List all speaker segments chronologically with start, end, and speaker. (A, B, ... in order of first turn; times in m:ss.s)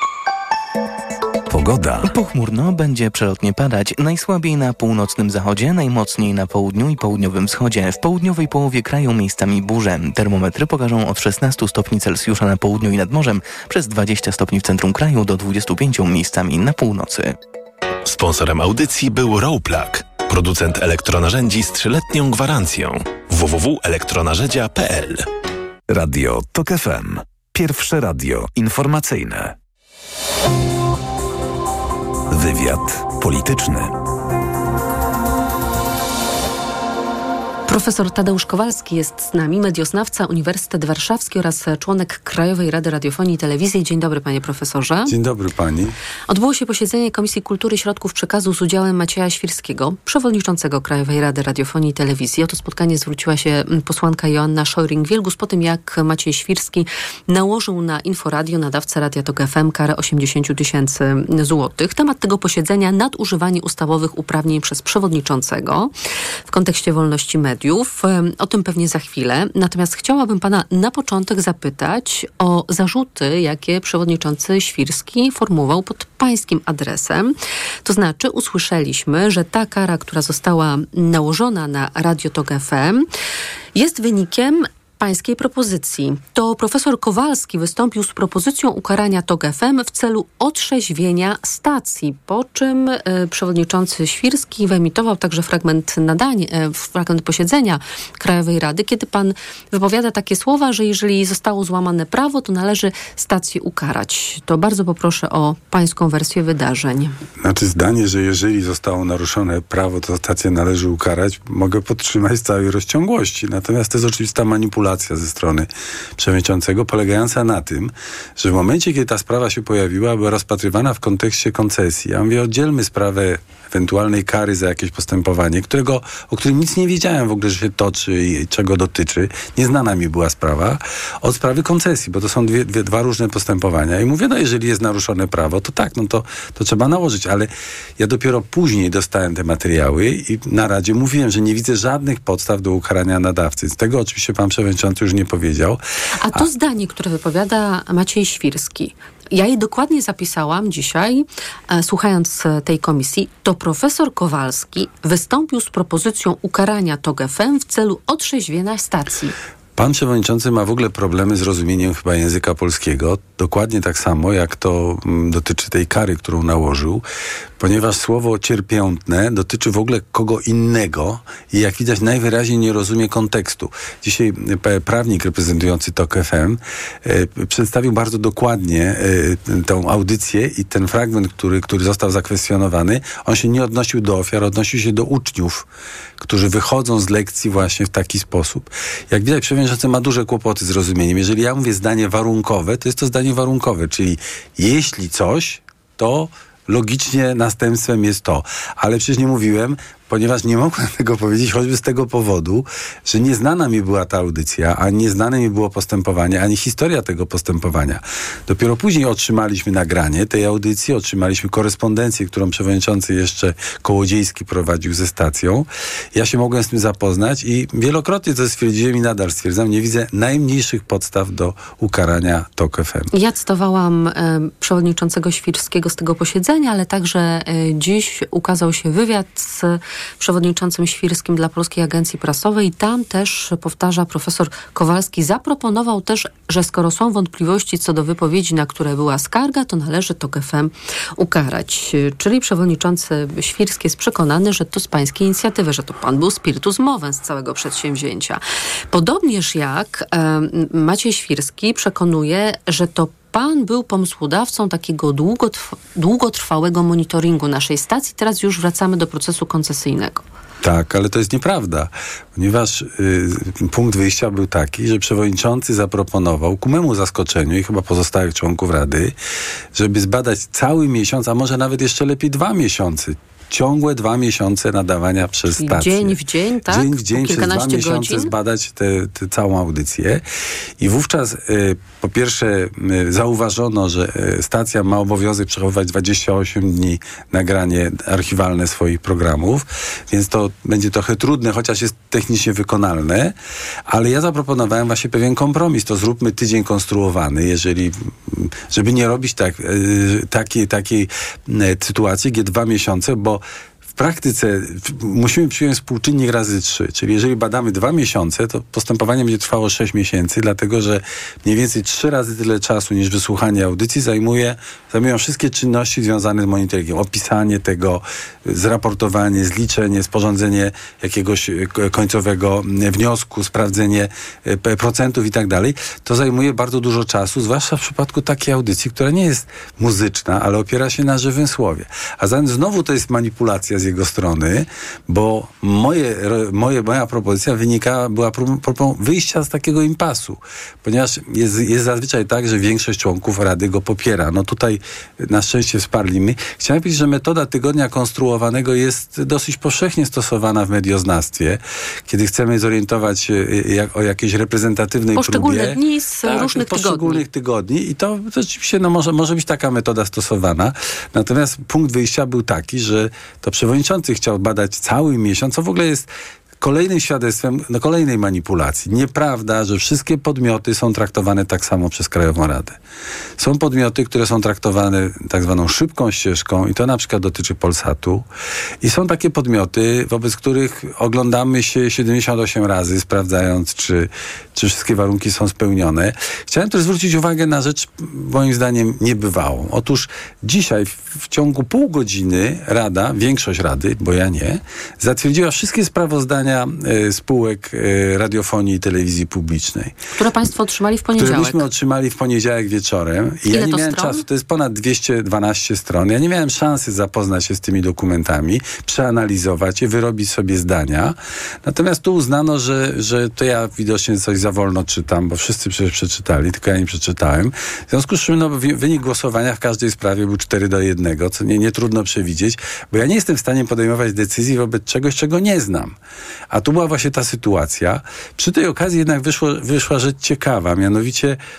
0:01.5-0:02.1 A
0:02.0-0:17.4 B
0:18.0-0:25.2 C
0:25.9-0:29.5 A
0:32.3-0:33.9 A
0:37.7-0:45.1 D
0:45.1-0:45.9 E
0:46.3-1:05.9 D
1:06.5-1:17.3 D
1:17.8-1:23.0 D
1:23.7-1:47.1 D
1:47.4-2:25.8 E
2:26.2-2:39.3 D
2:39.8-2:47.0 E
2:47.6-3:05.7 E
3:06.2-3:43.1 E
3:43.1-4:20.2 D
4:20.6-4:29.1 E
4:29.7-4:36.2 E
4:35.5-4:38.3 D
4:36.7-4:40.2 E
4:40.8-4:53.3 E
4:53.9-5:03.4 E
5:03.9-6:06.1 E
5:55.1-5:57.2 D
6:06.6-6:12.8 E
6:13.4-6:18.2 E
6:18.8-6:39.9 E
6:40.2-6:41.6 D
6:41.2-7:06.0 E
6:43.5-6:44.2 D
7:06.5-7:11.4 E